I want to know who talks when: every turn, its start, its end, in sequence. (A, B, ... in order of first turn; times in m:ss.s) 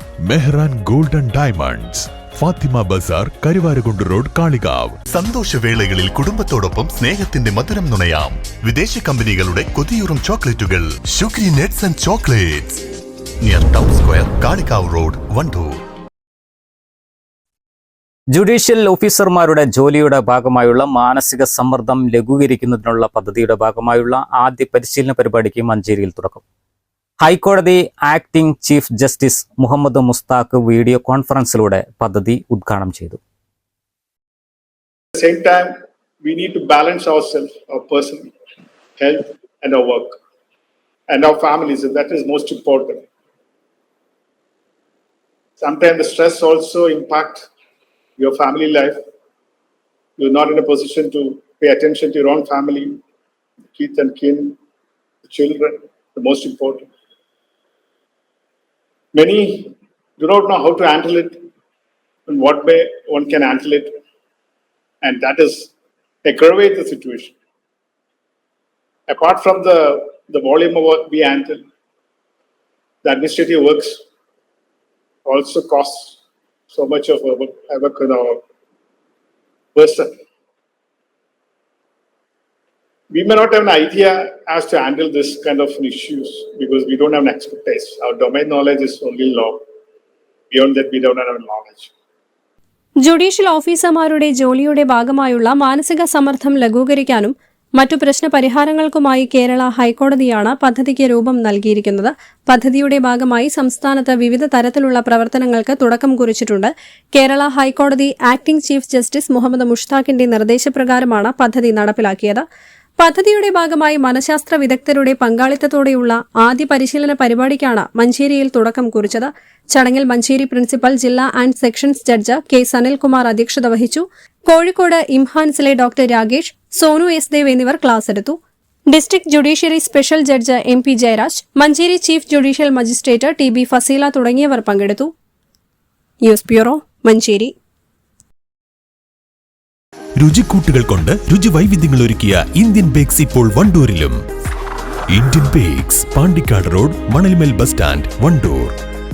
0:00.2-0:05.0 A
0:05.1-0:12.8 B
0:13.4-0:15.8 B
0:18.3-0:26.4 C
0:27.2-0:33.2 C
0:35.1-0:38.3 D
0:39.0-0:40.2 D
0:41.1-0:43.0 D
0:45.6-0:47.5 D
0:48.2-0:49.0 D
0:50.2-0:53.0 D
0:53.7-0:54.6 D
0:55.3-0:56.8 D
0:59.1-1:01.4 D
1:02.3-1:04.0 D
1:05.0-1:05.7 D
1:06.2-1:07.3 D
1:09.1-1:11.6 D
1:13.0-1:14.0 D
1:15.2-1:16.2 D
1:16.7-1:18.4 D
1:19.7-1:20.2 D
1:23.1-1:29.6 D
1:30.5-1:31.9 D
1:33.0-1:52.4 E
1:53.0-2:08.4 E
2:08.9-2:15.1 E
2:16.2-2:17.5 E
2:20.2-2:24.2 A
2:25.1-2:28.7 A